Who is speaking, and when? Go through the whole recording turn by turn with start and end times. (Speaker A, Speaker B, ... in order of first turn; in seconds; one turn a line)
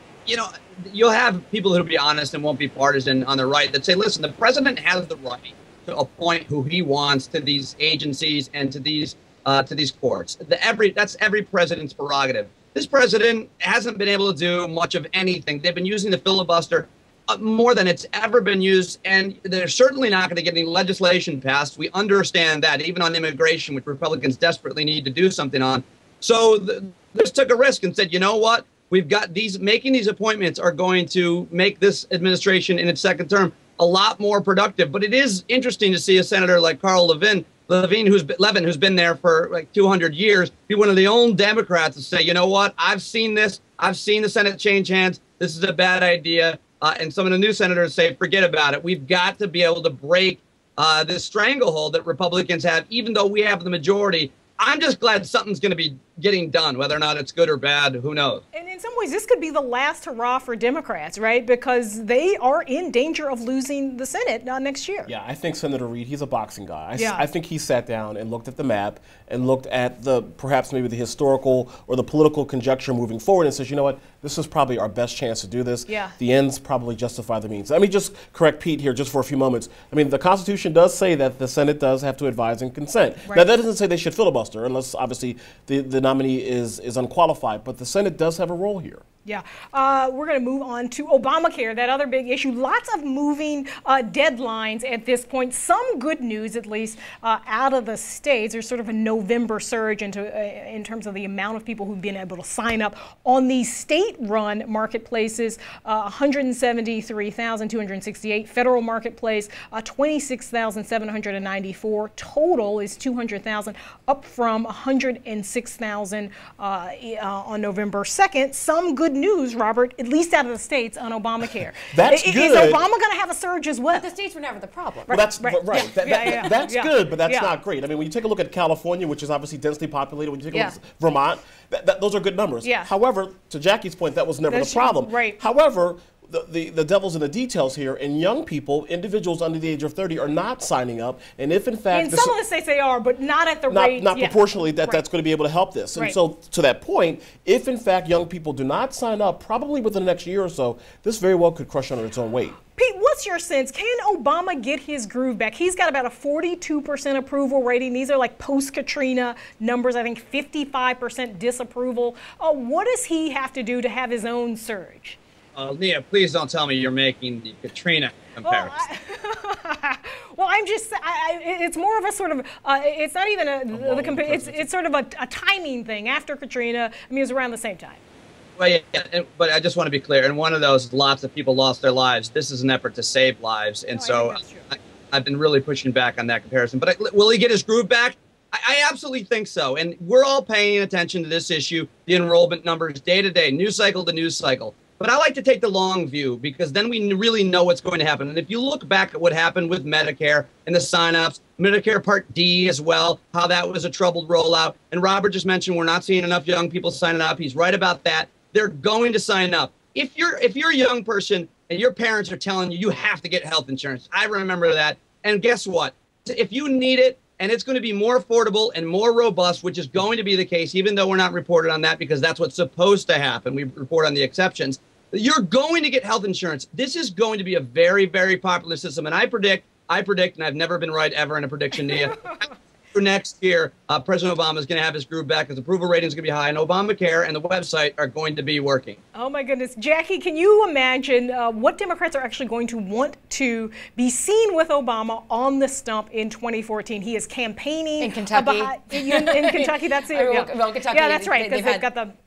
Speaker A: 0.2-58.4
Speaker B: 58.5-65.1
Speaker C: 65.0-89.0
Speaker B: 67.0-67.2
Speaker B: 75.9-76.1
Speaker B: 89.2-124.0
Speaker C: 121.9-122.8
Speaker D: 123.9-125.2
Speaker B: 125.1-127.5
Speaker C: 125.1-142.3
Speaker B: 132.6-132.9
Speaker B: 134.5-135.4
Speaker B: 141.9-145.0
Speaker C: 143.7-152.6
Speaker B: 152.7-165.2
Speaker A: 165.5-168.8
Speaker B: 168.4-178.0
Speaker C: 173.7-174.7
Speaker A: 178.6-232.3
Speaker B: 183.9-184.7
Speaker A: 232.9-239.0
Speaker B: 239.1-252.2
Speaker D: 248.0-251.9